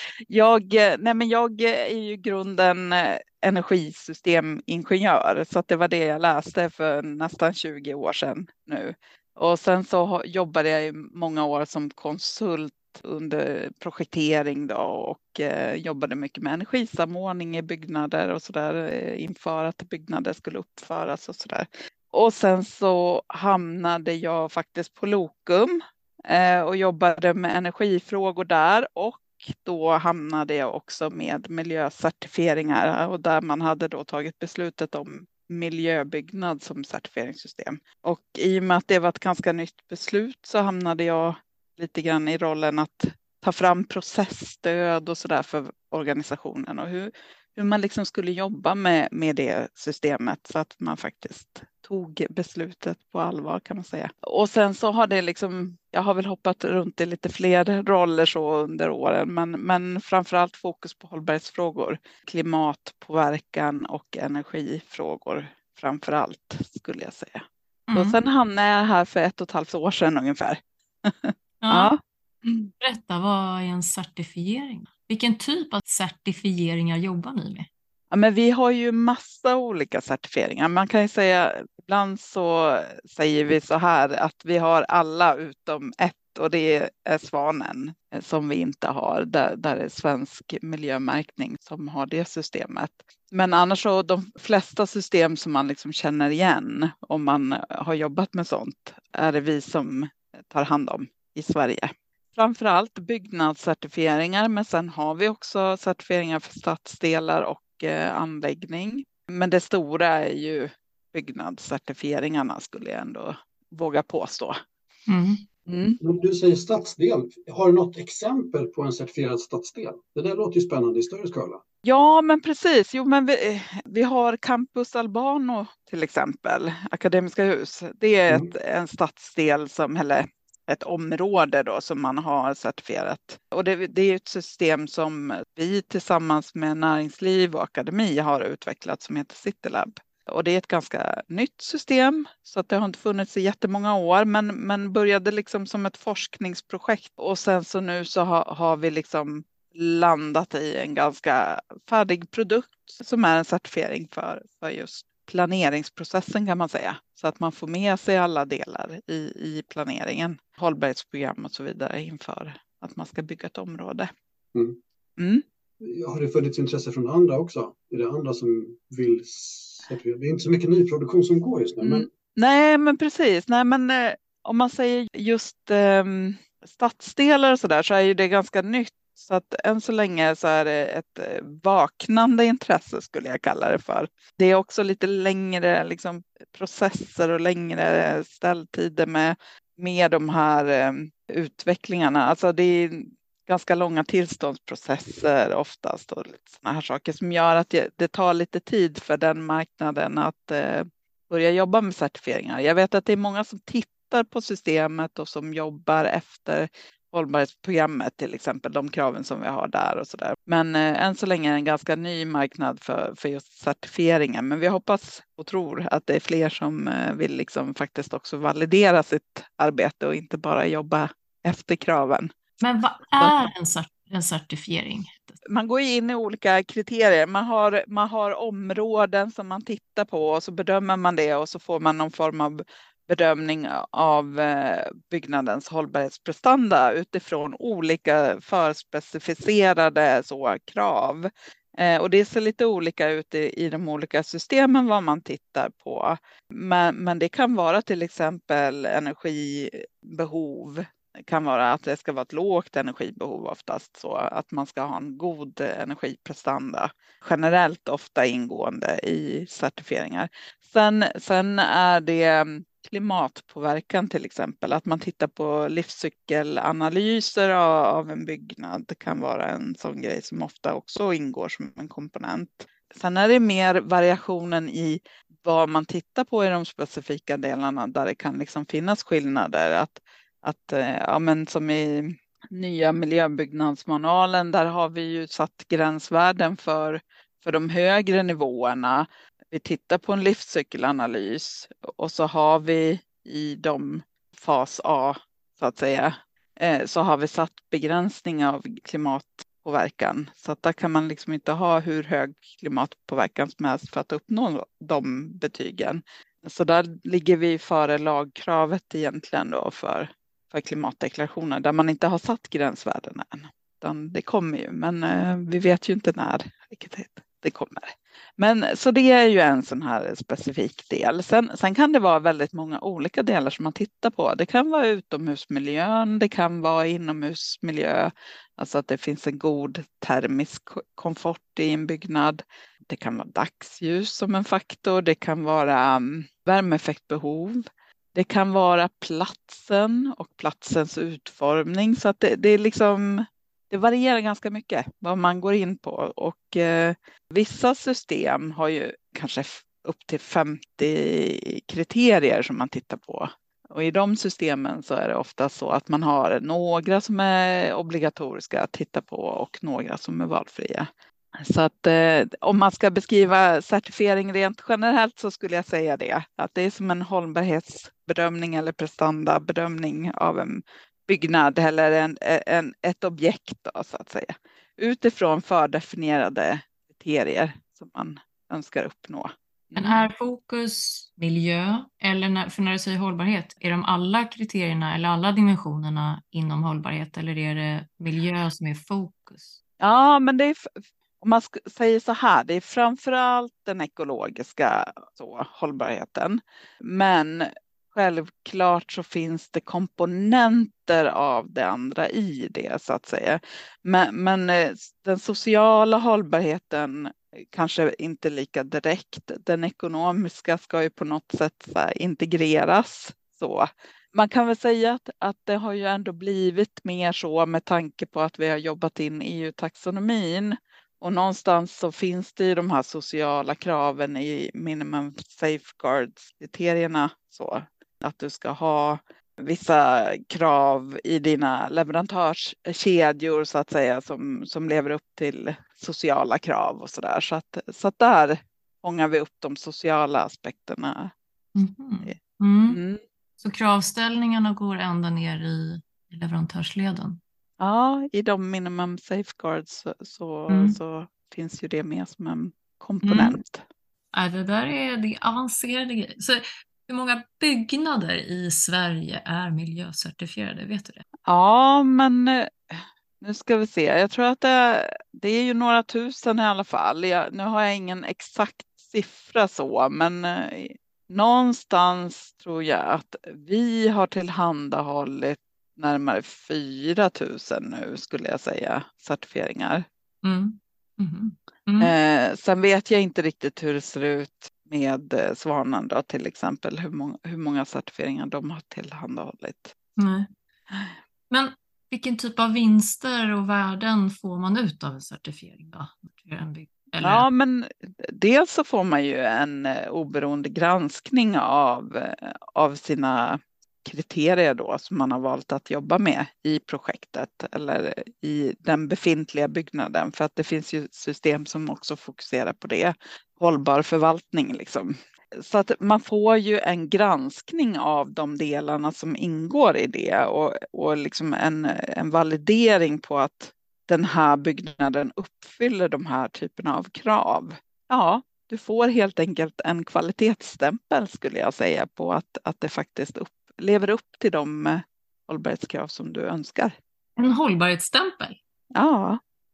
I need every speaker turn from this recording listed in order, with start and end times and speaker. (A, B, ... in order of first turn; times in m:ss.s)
0:00.3-1:07.4 A
1:07.9-1:08.2 B
1:08.0-1:12.7 A
1:11.6-1:11.9 B
1:12.8-1:17.7 B
1:18.1-1:54.6 A
1:55.1-1:55.4 B
1:55.7-1:56.0 A
1:56.0-2:01.6 C
2:01.8-2:44.1 A
2:45.2-2:45.4 A
2:45.8-2:52.1 C
2:51.8-3:42.3 A
3:42.6-3:45.4 B
3:43.2-3:43.5 A
3:45.5-5:37.6 A
5:38.2-6:20.1 A
6:19.8-6:29.6 B
6:29.8-7:21.1 A
7:21.6-7:22.8 B
7:22.7-7:23.0 A
7:23.4-7:27.2 B
7:27.6-7:33.6 A
7:30.5-7:30.8 B
7:33.0-7:33.4 B
7:34.1-7:41.0 B
7:41.3-7:59.8 A
8:00.2-8:01.9 B
8:01.8-8:09.7 A
8:10.0-8:10.3 B
8:11.3-8:17.3 B
8:17.0-8:56.7 A
8:57.2-8:58.4 B
8:58.8-8:59.2 A